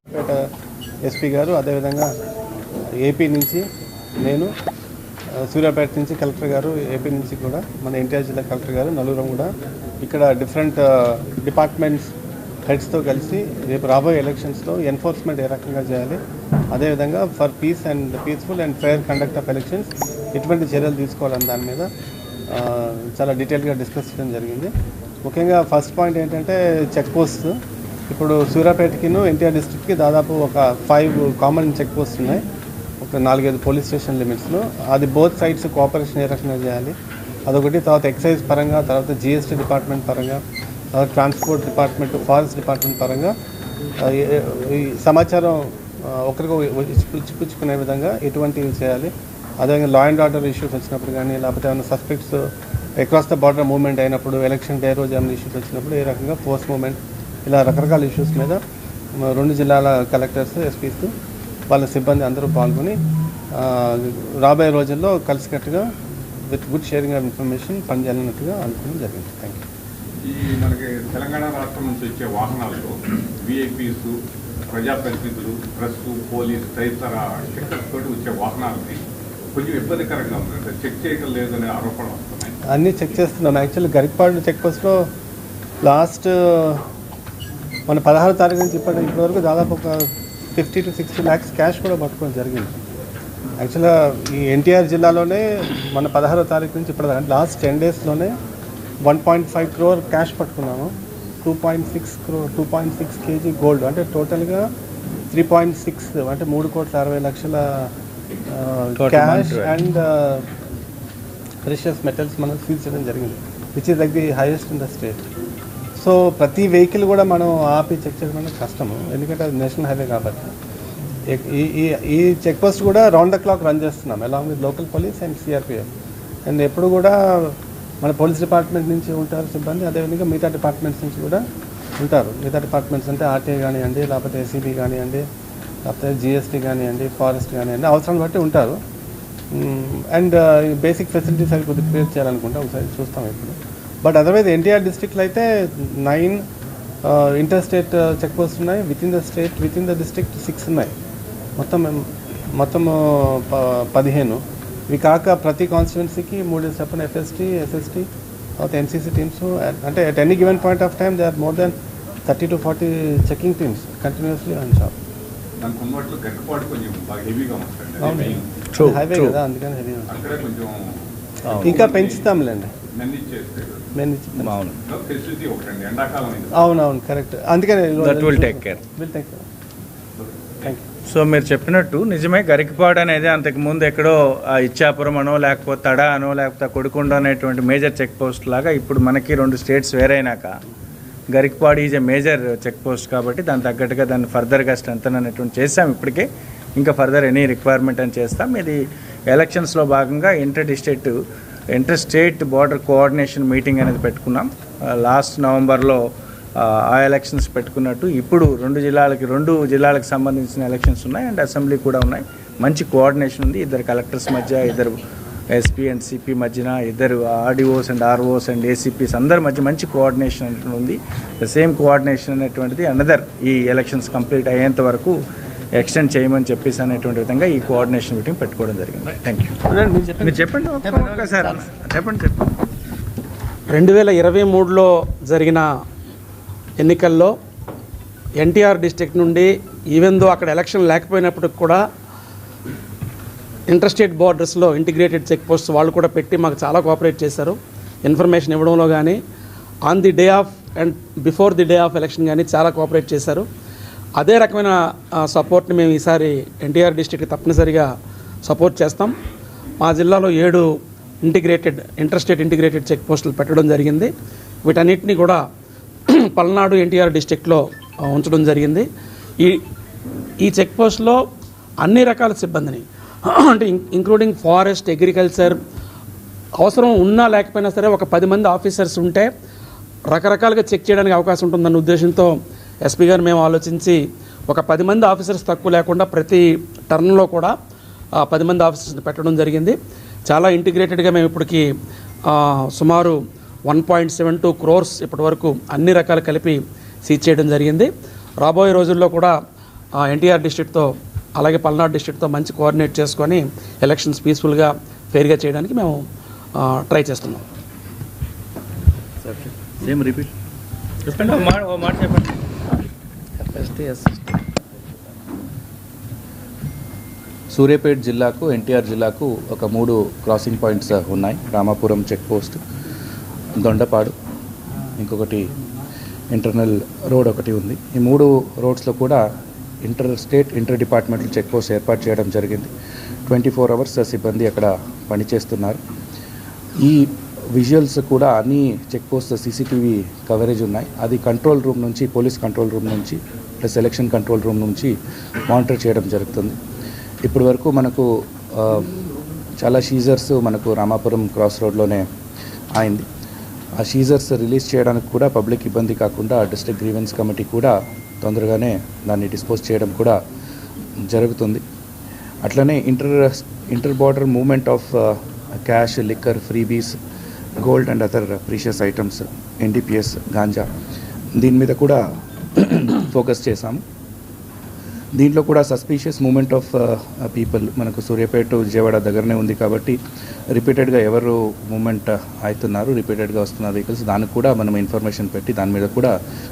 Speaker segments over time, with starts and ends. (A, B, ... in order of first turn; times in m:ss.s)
0:00.1-0:00.4 A
0:01.0-0:02.1 A
0:03.0-0:03.6 A
0:04.2-0:04.5 A
0:05.4-0:09.5 A
0:10.0-0:12.1 A
0:12.6-0:16.2 A
0:16.7-0:21.9 A
0:22.5-0:24.7 A
0:25.2-0:27.5 A
0:28.1-0:32.4 A
0:33.0-0:37.0 A
0:37.5-0:40.4 A
0:40.9-0:43.3 A
0:44.0-0:58.6 A
0:59.2-1:01.1 A
1:01.7-1:03.0 A
1:03.6-1:05.9 A
1:06.5-1:09.6 A
1:10.2-1:14.2 B
1:14.7-1:19.0 B
1:19.5-1:22.5 B
1:22.7-1:25.0 A
1:25.8-1:26.8 A
1:27.9-1:32.7 A
1:33.6-1:38.3 A
1:39.0-1:40.9 A
1:41.4-1:44.7 A
1:45.3-1:47.9 A
1:48.5-1:50.4 A
1:49.0-1:49.7 C
1:51.6-1:55.2 A
1:56.0-2:00.5 A
2:01.3-2:05.9 A
2:06.4-2:11.4 A
2:12.0-2:15.2 A
2:15.9-2:18.8 A
2:19.5-2:26.4 A
2:27.0-2:30.9 A
2:31.6-2:38.1 A
2:38.6-2:41.7 A
2:42.2-2:44.9 A
2:45.6-2:48.4 B
2:48.0-2:50.2 A
2:48.7-2:49.4 C
2:50.1-2:51.1 B
2:51.5-2:52.7 A
2:51.5-2:51.8 C
2:51.6-2:52.2 B
2:52.9-2:53.8 B
2:54.0-2:54.6 A
2:54.4-2:54.8 C
2:54.8-2:56.6 B
2:56.5-2:59.4 A
2:58.0-2:58.8 C
3:00.2-3:00.6 B
3:01.1-3:10.5 C
3:11.3-3:16.2 C
3:16.8-3:21.2 C
3:21.7-3:26.0 C
3:26.6-3:35.0 C
3:35.5-3:45.2 C
3:45.8-3:49.6 C
3:49.7-3:51.6 A
3:50.2-3:52.5 C
3:53.7-3:55.6 D
3:56.8-3:57.3 D
3:58.4-4:01.8 D
4:03.7-4:09.2 D
4:09.9-4:13.4 D
4:14.2-4:17.9 D
4:18.4-4:19.1 D
4:19.8-4:20.7 D
4:21.2-4:24.1 D
4:24.6-4:25.4 D
4:26.1-4:28.9 D
4:30.4-4:31.2 D
4:31.8-4:35.6 D
4:36.6-4:39.3 D
4:40.1-4:47.5 D
4:48.2-4:51.7 D
4:52.3-4:57.9 D
4:58.4-4:59.4 D
5:00.0-5:06.0 D
5:06.6-5:07.4 D
5:09.2-5:10.3 E
5:11.1-5:12.4 C
5:13.4-5:14.4 E
5:17.5-5:22.6 E
5:23.6-5:24.1 E
5:25.0-5:25.5 E
5:26.3-5:29.2 E
5:29.8-5:32.7 E
5:33.3-5:35.8 E
5:36.8-5:44.9 E
5:45.5-5:46.6 E
5:47.2-5:48.9 E
5:49.6-5:52.0 E
5:52.8-5:53.0 E
5:53.8-6:00.2 E
6:01.1-6:01.6 E
6:02.4-6:07.0 E
6:07.6-6:10.7 E
6:11.4-6:12.0 E
6:12.6-6:13.8 E
6:15.1-6:20.0 E
6:20.5-6:26.1 E